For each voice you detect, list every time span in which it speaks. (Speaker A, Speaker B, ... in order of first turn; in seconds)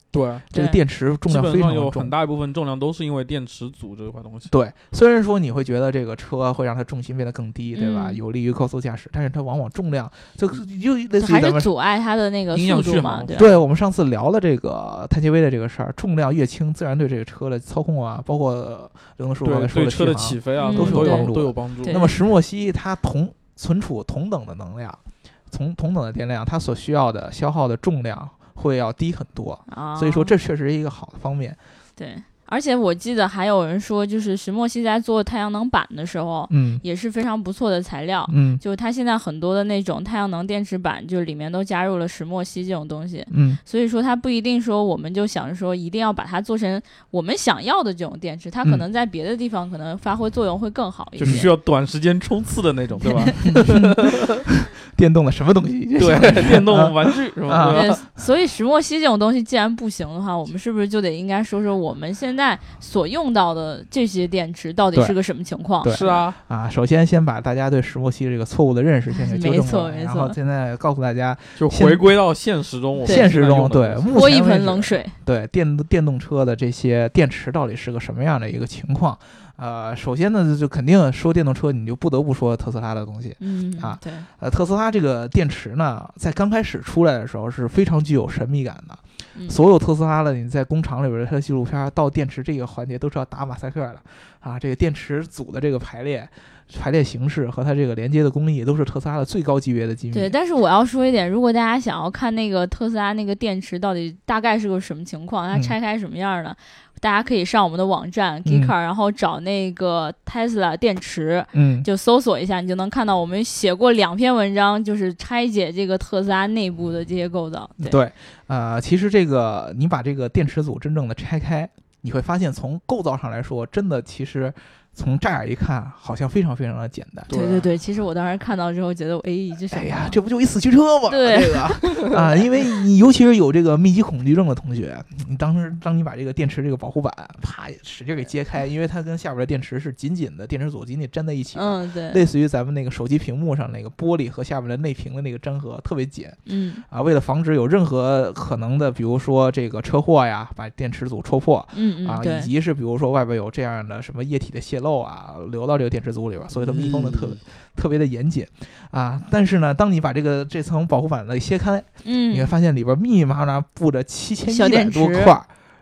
Speaker A: 0.1-0.5, 1.3-4.5, 12.5-13.5, 19.4-22.0, 51.2-54.4, 56.0-58.0, 65.9-66.4, 71.6-74.2, 127.3-127.7, 156.6-157.4
Speaker B: 0.5-2.1, 4.5-11.7, 13.3-25.0, 25.5-31.6, 36.5-36.8, 38.3-38.6, 43.3-43.6, 51.2-51.5, 53.4-58.0, 65.8-72.1, 73.0-100.4, 108.5-108.7, 111.5-111.9, 117.8-127.3, 129.7-165.5
Speaker C: 0.5-0.8, 7.8-8.2, 11.2-13.5, 20.6-21.3, 21.8-22.1, 29.7-30.4, 32.0-51.5, 53.0-53.4, 57.7-66.2, 69.1-70.4, 74.1-75.2, 83.4-84.3, 89.3-89.6, 100.1-118.0, 127.3-130.2, 131.1-132.7, 141.5-142.2, 146.5-146.8, 151.7-152.5, 162.0-162.5, 164.5-165.4